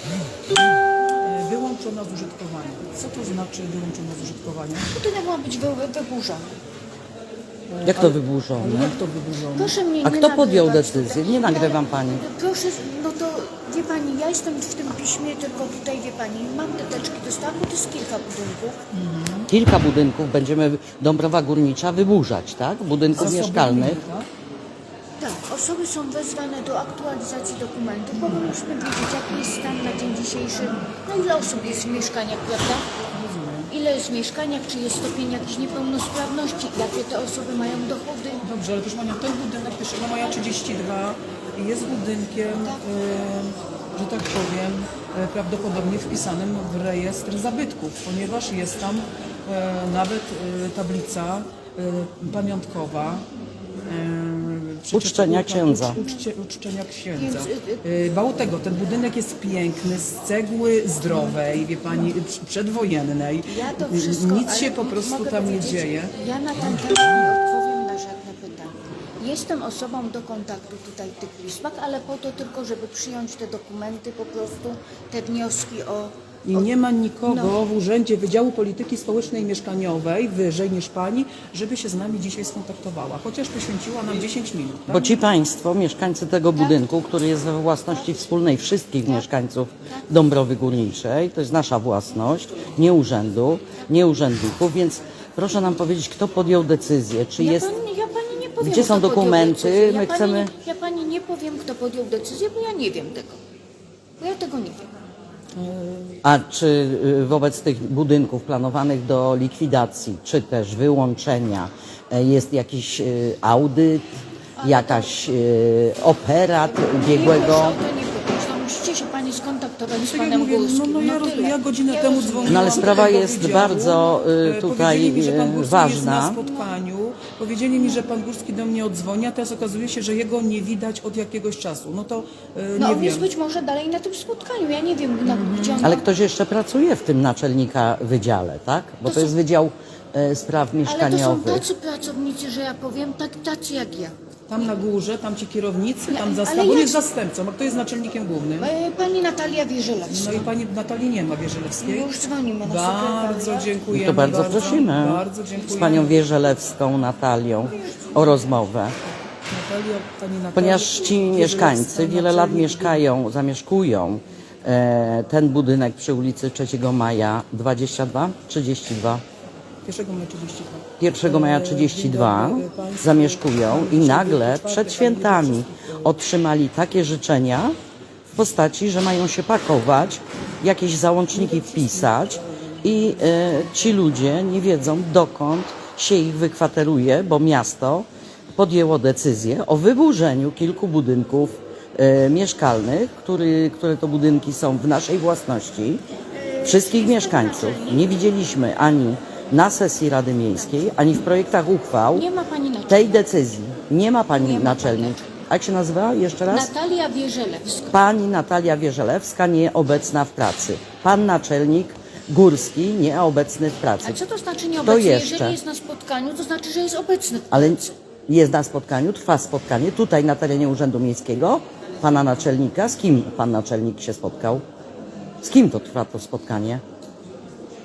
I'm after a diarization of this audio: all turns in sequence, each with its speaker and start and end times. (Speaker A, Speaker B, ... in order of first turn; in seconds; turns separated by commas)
Speaker A: 1.2-4.9, Speaker B: 4.9-6.6, Speaker A: 7.7-9.8, Speaker C: 7.8-8.9, Speaker B: 9.5-18.8, Speaker C: 10.0-12.2, Speaker A: 18.9-19.3, Speaker C: 19.5-24.0, Speaker A: 23.2-24.3, Speaker B: 25.2-32.9, Speaker A: 33.1-33.7, Speaker B: 33.7-38.5, Speaker A: 38.4-53.3, Speaker B: 42.5-42.8, Speaker A: 53.9-66.2, Speaker C: 54.9-56.0, Speaker B: 57.1-57.8, Speaker B: 63.4-76.7, Speaker A: 76.4-85.2, Speaker B: 77.3-77.5, Speaker C: 84.9-97.7, Speaker B: 97.4-103.4, Speaker C: 98.6-100.5, Speaker B: 104.2-104.9, Speaker A: 105.5-106.1, Speaker C: 106.2-114.1, Speaker B: 114.6-115.1, Speaker C: 114.6-117.8, Speaker B: 116.8-123.3, Speaker A: 120.1-133.3, Speaker C: 122.5-126.4, Speaker B: 132.8-136.0, Speaker A: 135.2-135.8, Speaker C: 135.8-141.7, Speaker B: 139.1-139.3, Speaker B: 140.8-144.2, Speaker A: 144.5-148.7, Speaker B: 146.1-147.0, Speaker B: 148.6-150.5, Speaker A: 150.1-152.1, Speaker B: 151.7-153.8, Speaker A: 152.6-156.2, Speaker C: 153.9-158.9, Speaker A: 157.8-158.1, Speaker A: 159.5-163.0, Speaker C: 160.6-169.2, Speaker A: 169.8-175.7, Speaker C: 171.0-177.8, Speaker C: 178.3-196.0, Speaker A: 181.5-181.8, Speaker B: 196.5-198.1, Speaker C: 196.6-202.3, Speaker B: 202.1-203.2, Speaker C: 202.9-206.7, Speaker B: 204.3-205.2, Speaker B: 206.5-207.9, Speaker C: 207.9-214.2, Speaker B: 214.0-217.8, Speaker C: 214.8-215.6, Speaker C: 217.5-224.6, Speaker C: 225.4-226.8